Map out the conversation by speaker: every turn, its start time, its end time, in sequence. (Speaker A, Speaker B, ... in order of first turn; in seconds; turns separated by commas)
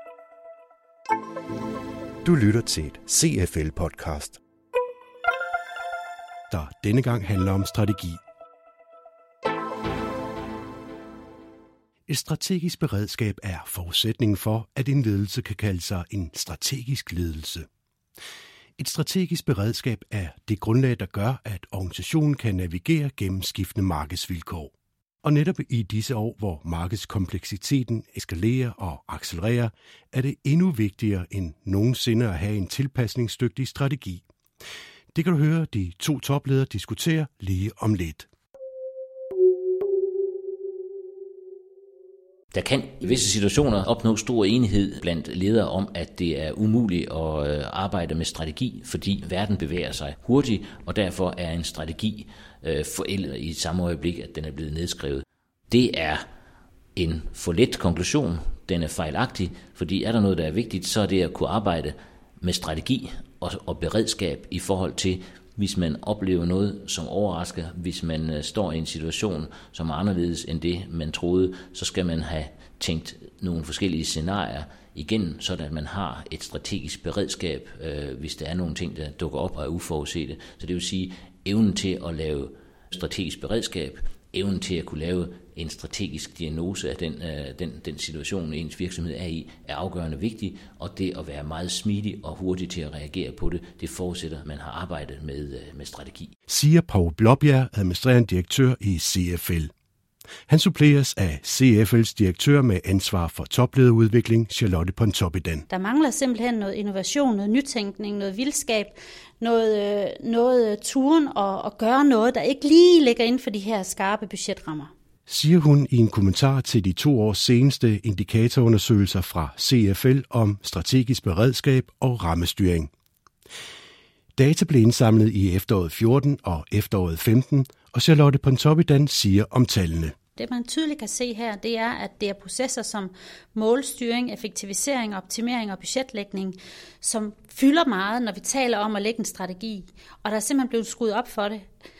Speaker A: 2.2-4.4, Speaker A: 6.5-8.2, Speaker A: 12.1-17.7, Speaker A: 18.8-24.7, Speaker A: 25.2-34.2, Speaker A: 35.1-38.3, Speaker B: 42.5-56.2, Speaker B: 57.0-96.3, Speaker A: 96.5-99.7, Speaker A: 100.5-105.6, Speaker C: 105.7-114.9, Speaker A: 115.3-122.9, Speaker A: 124.4-130.1, Speaker C: 130.4-141.6